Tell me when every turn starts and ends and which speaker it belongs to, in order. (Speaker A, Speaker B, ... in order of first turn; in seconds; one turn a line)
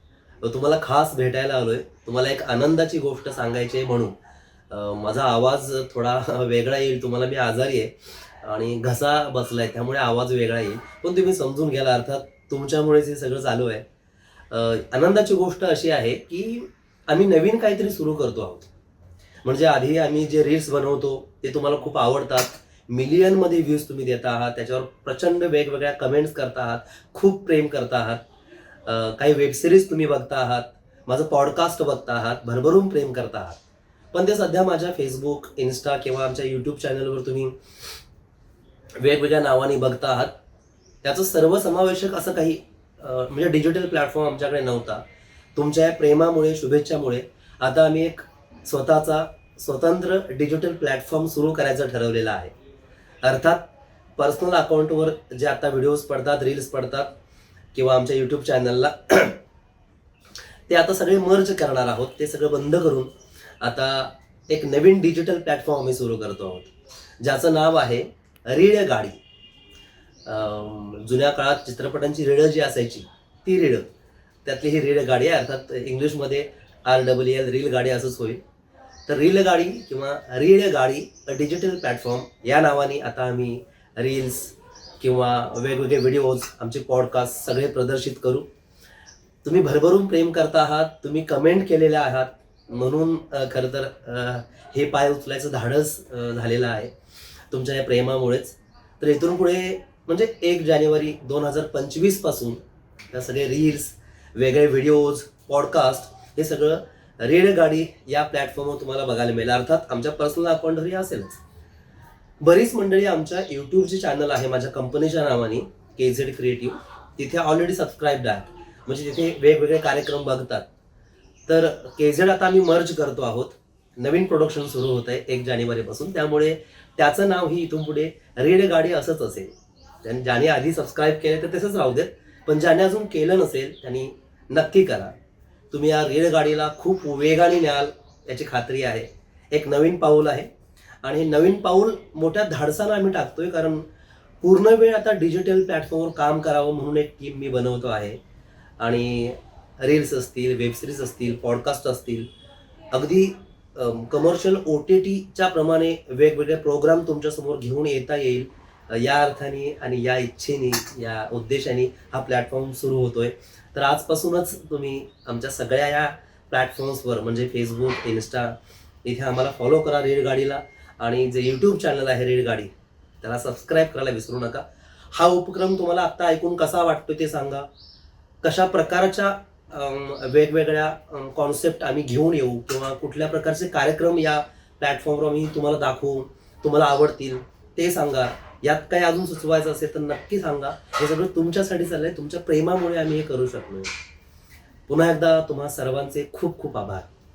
Speaker A: 0.4-4.2
Speaker A: 4.7-13.8
Speaker A: 14.5-18.7
Speaker A: 19.4-28.2
Speaker A: 28.9-33.6
Speaker A: 34.1-37.5
Speaker A: 39.0-40.4
Speaker A: 41.0-45.0
Speaker A: 45.5-52.5
Speaker A: 53.2-53.7
Speaker A: 54.2-57.1
Speaker A: 57.7-59.4
Speaker A: 60.7-69.2
Speaker A: 70.3-73.9
Speaker A: 74.5-78.4
Speaker A: 79.1-88.5
Speaker A: 89.4-96.9
Speaker A: 97.5-102.6
Speaker A: 103.1-111.4
Speaker A: 112.4-120.7
Speaker A: 121.5-135.1
Speaker A: 135.7-140.5
Speaker A: 141.0-143.8
Speaker A: 144.4-148.2
Speaker A: 148.8-152.3
Speaker A: 152.9-177.7
Speaker A: 178.4-193.9
Speaker A: 194.9-197.1